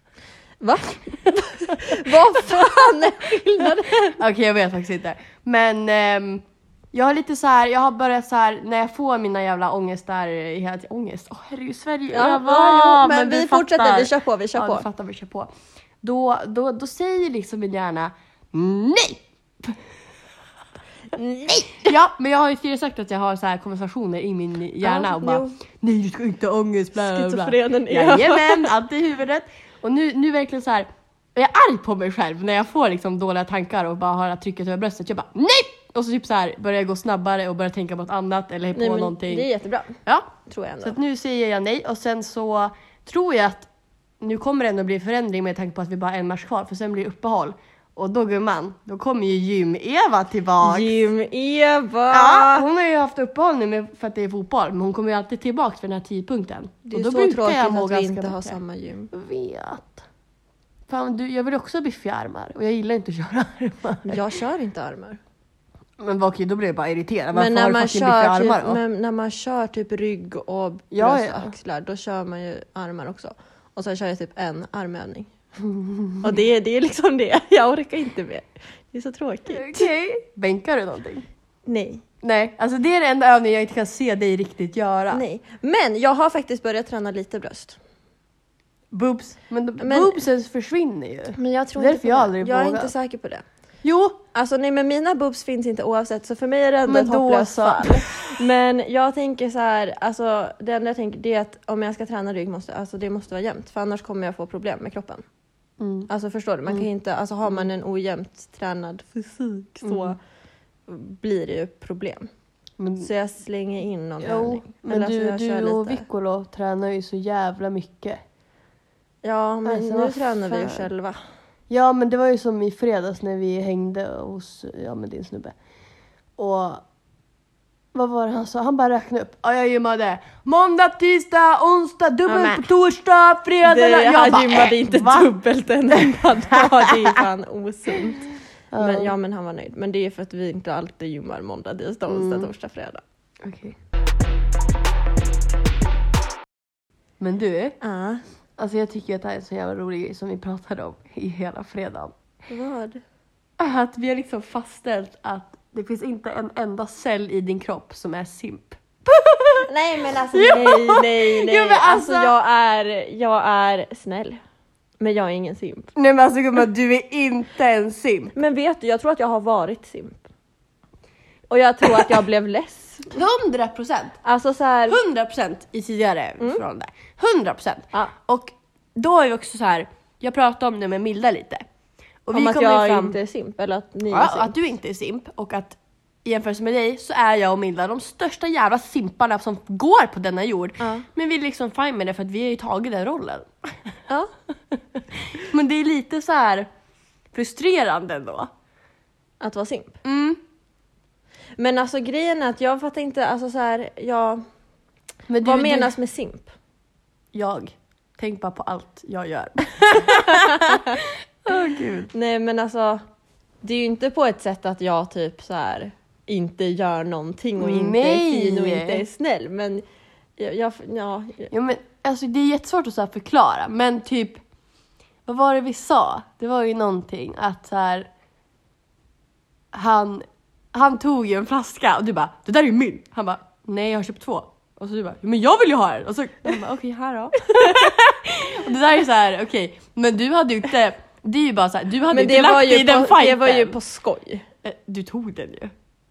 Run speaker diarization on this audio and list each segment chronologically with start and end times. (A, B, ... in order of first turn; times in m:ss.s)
0:00.6-0:04.2 A
0:04.1-0:15.5 B
0:12.1-0:14.8 A
0:16.0-0:19.8 B
0:21.1-0:21.9 A
0:21.8-0:39.4 B
0:24.8-0:25.6 A
0:26.9-0:28.7 A
0:38.7-0:41.0 A
0:40.0-0:43.7 B
0:44.2-0:50.9 B
0:50.6-0:52.6 A
0:52.1-0:58.6 B
0:56.9-0:59.1 A
0:59.1-1:00.0 B
1:00.9-1:04.2 B
1:04.1-1:05.2 A
1:06.0-1:08.8 B
1:07.3-1:15.3 A
1:10.9-1:11.5 B
1:15.6-1:16.2 B
1:16.2-1:19.9 A
1:19.5-1:21.2 B
1:21.6-1:22.0 A
1:22.2-1:25.2 B
1:25.1-1:27.8 A
1:28.9-1:32.9 B
1:29.8-1:30.2 A
1:31.4-1:33.4 A
1:33.8-1:34.2 B
1:34.3-1:45.2 A
1:36.8-1:38.3 B
1:45.8-1:46.1 B
1:46.1-1:50.2 A
1:49.8-1:50.1 B
1:50.9-1:52.3 A
1:52.8-1:53.1 B
1:53.0-1:56.0 A
1:54.2-1:58.2 B
1:59.2-2:01.2 A
1:59.6-2:00.9 B
2:01.7-2:05.5 B
2:06.4-2:06.8 B
2:07.9-2:15.3 B
2:12.3-2:12.7 A
2:13.6-2:18.2 A
2:16.0-2:17.2 B
2:18.7-2:19.1 B
2:18.8-2:23.0 A
2:22.1-2:22.5 B
2:23.4-2:23.8 B
2:27.2-2:27.8 B
2:27.8-2:28.2 A
2:28.6-2:32.1 B
2:32.5-2:33.0 A
2:33.6-2:39.7 B
2:39.7-2:44.4 A
2:40.3-2:42.3 B
2:45.0-2:45.9 A
2:45.9-2:48.3 B
2:48.3-2:50.2 A
2:51.5-2:53.1 A
2:53.1-2:54.2 B
2:54.2-2:55.0 A
2:54.9-3:01.6 B
3:02.2-3:03.2 B
3:02.3-3:04.6 A
3:04.1-3:13.9 B
3:10.8-3:11.0 A
3:14.9-3:16.7 B
3:17.3-3:18.5 B
3:19.4-3:20.0 A
3:20.0-3:20.4 B
3:21.6-3:24.4 A
3:25.3-3:25.9 B
3:25.4-3:26.5 A
3:27.3-3:32.1 B
3:30.0-3:31.0 A
3:32.1-3:33.0 A
3:33.6-3:39.8 A
3:37.6-3:39.0 B
3:40.4-3:41.5 A
3:41.5-3:44.4 B
3:45.2-3:48.1 B
3:49.7-4:03.8 B
3:57.6-3:57.9 A
4:02.1-4:04.5 A
4:04.6-4:05.7 B